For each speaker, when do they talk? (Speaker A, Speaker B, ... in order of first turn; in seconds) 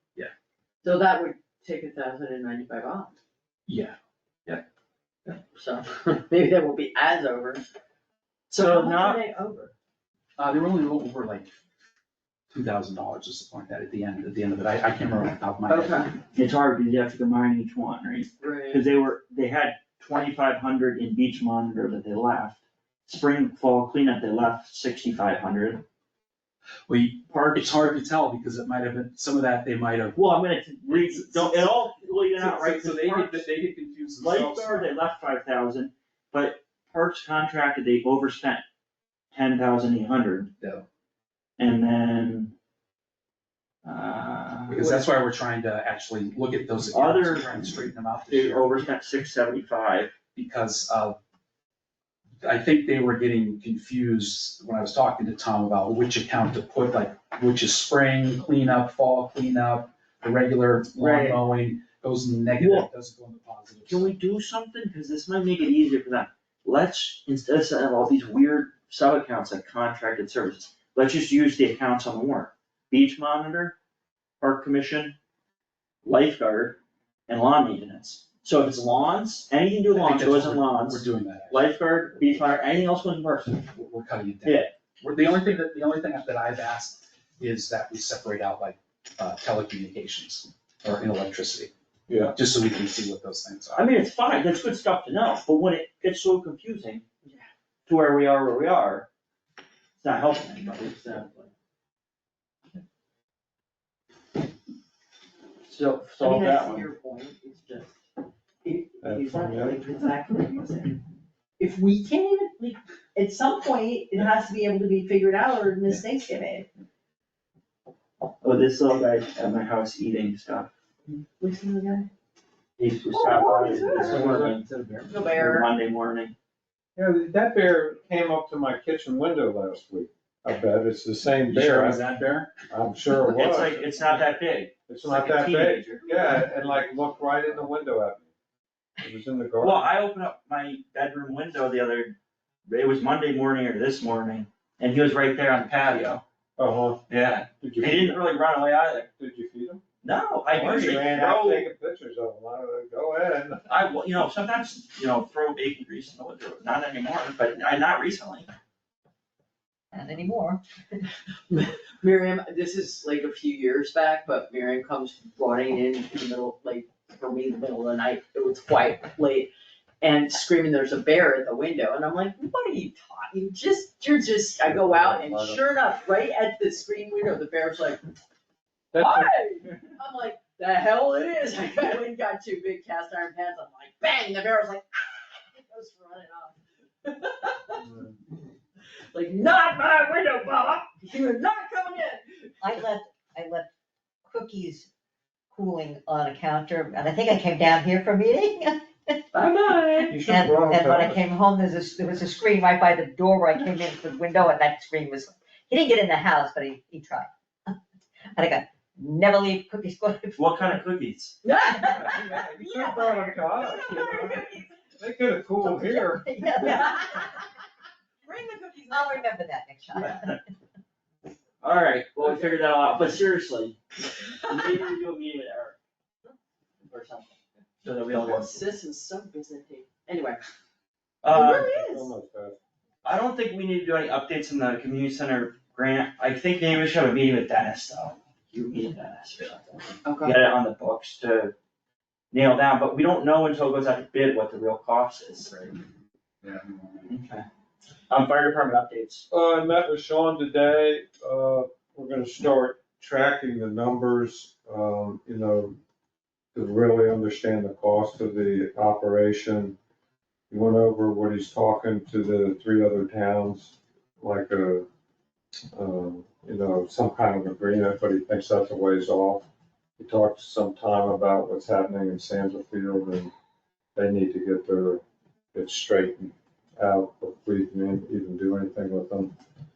Speaker A: 0.8-3.2, 5.4-7.6, 8.6-9.7, 15.7-16.1, 18.4-18.8, 100.9-101.5, 106.2-108.0, 108.6-111.0, 111.6-116.7, 121.1-122.1, 123.1-124.1, 125.1-125.7, 161.5-178.0, 179.0-187.9, 189.1-192.8, 211.4-214.8, 216.6-217.4, 218.2-219.3, 224.3-224.9, 228.0-230.5, 231.3-232.1
Speaker B: 3.7-4.0, 10.4-11.6, 12.5-16.1, 26.9-30.2, 30.9-31.8, 32.4-34.9, 40.6-40.9, 44.7-48.7, 50.4-51.2, 52.4-64.1, 79.9-82.5, 83.7-91.7, 92.3-94.0, 123.9-125.1, 131.5-132.5, 246.4-247.0
Speaker C: 8.5-9.2, 16.3-25.8, 27.3-28.0, 30.1-33.5, 34.2-38.6, 39.3-40.5, 41.6-42.5, 43.9-45.0, 46.9-50.1, 61.0-61.4, 62.6-62.9, 63.9-73.8, 74.4-75.2, 76.0-83.7, 84.4-84.7, 92.1-92.3, 93.8-97.0, 97.9-99.1, 100.0-101.3, 105.7-106.9, 118.4-120.7, 122.8-124.7, 125.3-126.3, 133.3-136.1, 139.6-146.2, 147.1-149.1, 150.0-151.7, 153.7-158.5, 199.4-200.1, 210.4-211.4, 220.0-220.4, 221.6-223.8, 224.4-225.8, 226.9-228.6, 231.2-231.7, 233.0-241.5, 242.3-245.6, 247.1-247.4, 248.1-249.2
Speaker D: 109.0-109.8, 124.1-124.5, 127.0-132.0, 132.7-134.1, 134.9-138.3, 139.0-139.9, 146.6-147.0, 147.6-148.2, 149.2-149.8, 150.5-153.7, 174.6-175.6, 178.9-179.3, 187.8-188.2, 200.1-201.3, 211.9-216.9, 231.3-232.6, 249.3-255.8, 256.5-259.8, 260.5-264.9, 265.7-269.5, 270.0-273.3, 273.9-275.0, 275.5-279.3
Speaker E: 159.9-160.6, 192.6-193.7, 194.3-194.9, 195.5-199.3, 200.1-207.7, 208.3-210.8, 211.7-213.6, 215.6-217.5, 218.9-220.4, 240.1-240.4